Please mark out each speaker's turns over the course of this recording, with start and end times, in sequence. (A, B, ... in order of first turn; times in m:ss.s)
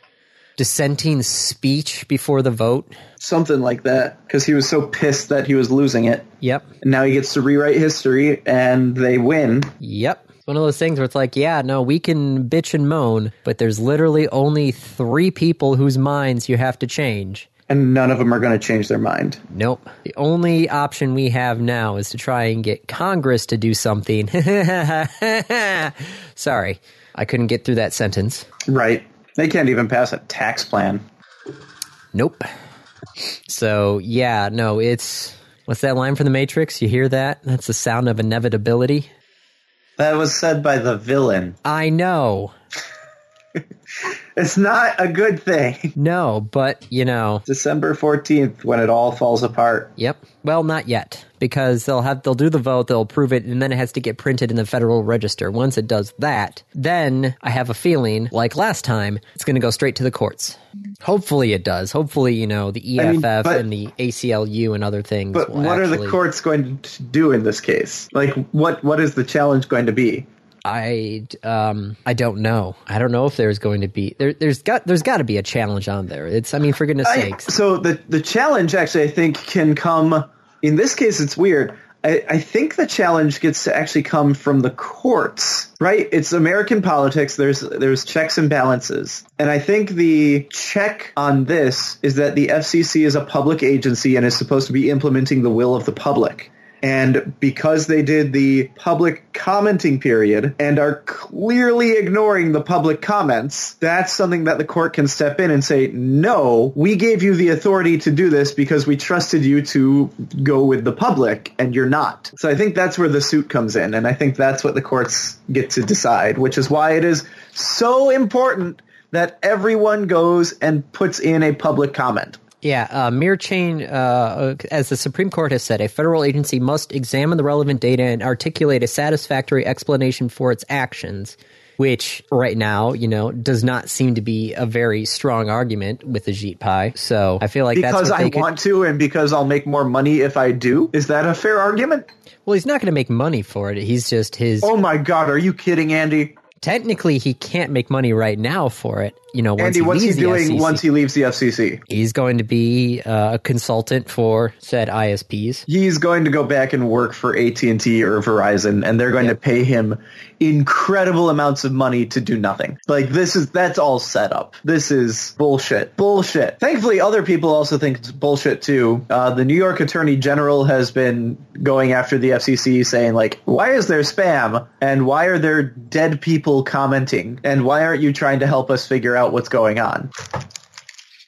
0:00.6-0:02.9 A
0:03.2-0:06.3 B
0:06.4-0:06.7 A
0:06.8-0:09.7 B
0:09.8-0:17.5 A
0:17.7-0:19.4 B
0:19.5-0:28.5 A
0:28.6-0:31.0 B
0:32.1-0:32.5 A
0:33.5-0:39.1 A
0:40.0-0:41.6 B
0:41.6-0:42.5 A
0:44.4-0:45.9 B
0:46.0-0:47.4 A
0:47.5-0:49.9 B
0:50.0-1:06.2 A
1:03.0-1:03.6 B
1:05.3-1:10.3 B
1:10.6-1:17.5 A
1:17.0-2:02.4 B
2:02.6-2:18.5 A
2:17.7-2:22.1 B
2:22.4-2:24.7 A
2:24.6-2:26.4 B
2:26.6-2:30.8 A
2:29.6-2:31.8 B
2:31.9-2:35.6 A
2:35.7-3:00.1 B